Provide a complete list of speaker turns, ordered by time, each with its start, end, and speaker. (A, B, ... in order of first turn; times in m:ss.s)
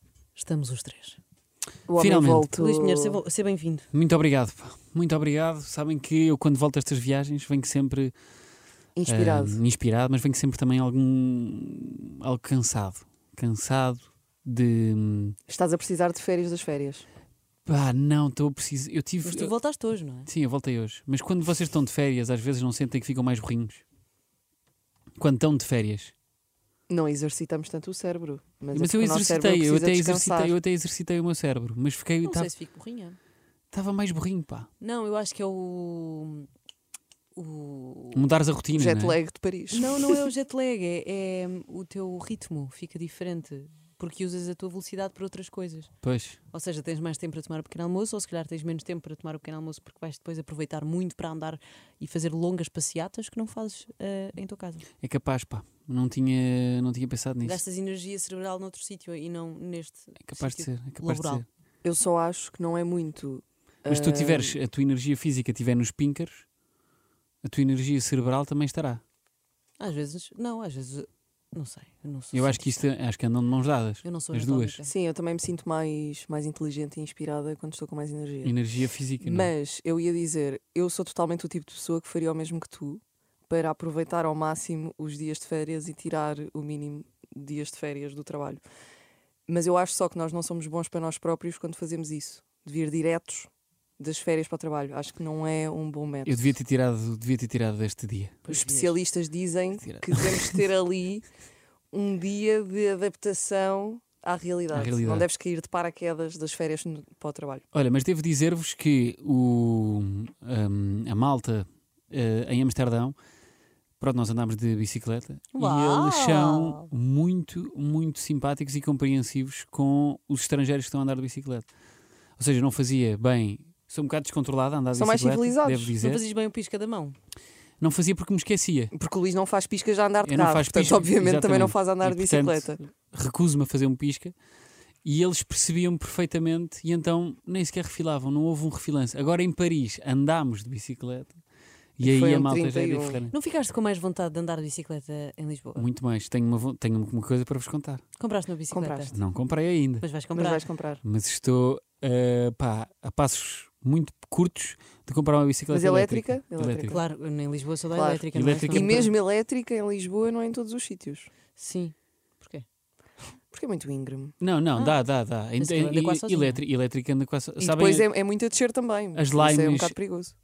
0:00.3-0:01.2 A
0:01.9-0:03.2 B
0:02.0-0:02.5 C
0:02.5-0:03.9 A
0:03.9-0:08.1 C
0:09.0-0:09.6 B
0:09.1-0:15.4 C
0:15.5-0:17.0 B
0:17.7-0:19.5 C
0:19.2-0:20.3 A
0:20.3-0:23.8 C
0:25.2-0:26.1 C
0:26.9-0:30.5 B
0:28.7-0:32.5 C
0:32.2-0:33.2 A
0:33.7-0:34.7 C
0:34.8-0:36.5 A
0:37.4-0:38.3 A
0:38.1-0:39.2 C
0:38.8-0:40.3 B
0:39.7-0:45.9 A
0:46.0-0:46.4 C
0:46.5-0:54.9 A
0:55.0-0:57.6 C
0:57.4-1:01.4 A
1:00.2-1:01.4 C
1:01.8-1:04.6 B
1:03.9-1:06.4 C
1:07.4-1:09.0 C
1:09.8-1:12.6 A
1:12.3-1:14.8 C
1:14.0-1:14.9 A
1:14.8-1:18.6 B
1:18.4-1:19.5 C
1:19.2-1:28.6 B
1:29.5-1:36.4 B
1:36.2-1:38.4 C
1:38.4-1:39.0 A
1:38.5-1:41.2 B
1:39.8-1:40.6 C
1:41.9-1:47.6 B
1:44.7-1:45.3 C
1:47.7-1:53.2 C
1:54.0-2:01.7 C
1:55.5-1:56.9 A
2:02.4-2:06.2 C
2:04.9-2:05.9 B
2:06.0-2:07.2 A
2:07.8-2:08.9 C
2:08.9-2:12.8 B
2:10.2-2:14.3 C
2:15.0-2:21.4 C
2:22.0-2:23.3 C
2:22.0-2:23.2 B
2:23.3-2:25.8 A
2:25.8-2:28.0 C
2:28.2-2:29.2 A
2:28.7-2:29.1 B
2:29.1-2:30.1 C
2:30.0-2:30.6 A
2:30.3-2:31.0 B
2:31.0-2:37.0 C
2:35.7-2:37.0 B
2:36.9-2:39.1 A
2:37.9-2:41.3 B
2:38.3-2:39.1 C
2:41.6-2:42.6 A
2:43.5-2:44.4 B
2:44.4-2:48.1 C
2:45.6-2:46.6 A
2:47.6-2:50.3 B
2:49.2-2:50.0 C